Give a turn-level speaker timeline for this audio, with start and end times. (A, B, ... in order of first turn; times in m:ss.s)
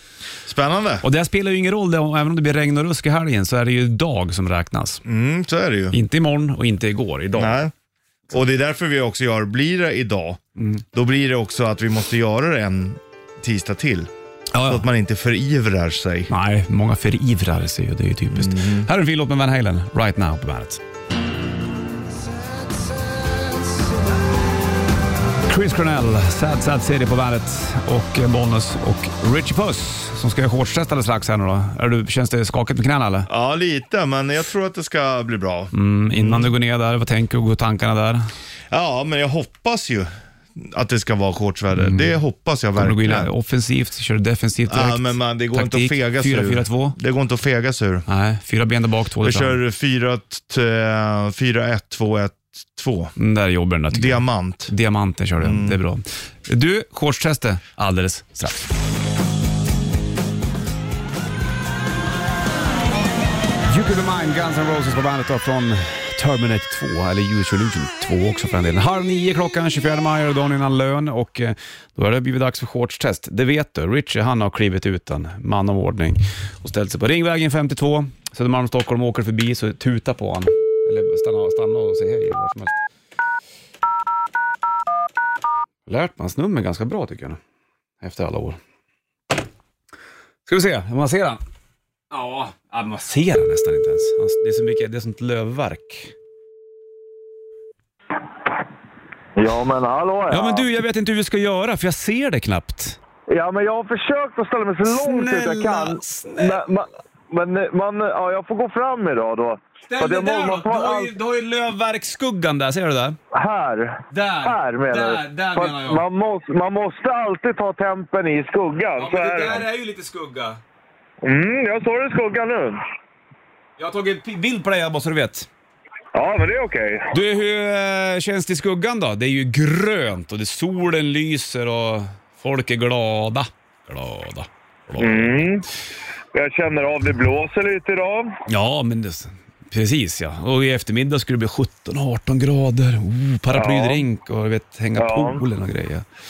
0:00.5-0:01.0 A
0:01.0-0:05.0 B
0:05.0-0:06.0 A
0:05.9-0:07.6 B
0:07.4-0:07.7 A
0:08.3-0:10.4 A
0:10.6-0:10.8 B
0:10.9-0:14.1 A
0:14.5-0:14.9 B
0:14.6-0:16.3 A
0:16.3-0:20.8 B
0:18.3-0:18.9 A
0:25.5-0:33.3 B
0:33.3-0:36.5 A
0:35.7-0:38.3 B
0:38.7-0:43.3 A
0:41.8-0:42.1 B
0:42.8-0:47.0 B
0:44.7-0:48.1 A
0:48.1-0:49.6 B
0:49.2-0:53.2 A
0:53.2-0:58.7 B
0:53.9-0:54.7 A
0:55.4-0:55.8 A
1:03.7-1:22.8 B
1:25.9-1:27.4 B
1:28.0-1:28.6 B
1:30.5-1:31.4 B
1:32.1-1:36.1 B
1:39.4-1:40.7 C
1:40.3-1:43.0 B
1:43.3-1:51.1 C
1:44.8-1:46.7 B
1:49.9-1:53.2 B
1:53.3-1:59.7 C
1:54.1-1:56.0 B
1:59.0-2:00.6 B
2:01.2-2:02.8 C
2:03.8-2:05.5 B
2:06.1-2:07.1 C
2:07.1-2:15.5 B
2:15.0-2:15.7 C
2:16.3-2:18.3 C
2:18.5-2:26.0 B
2:23.5-2:24.0 C
2:25.0-2:25.4 C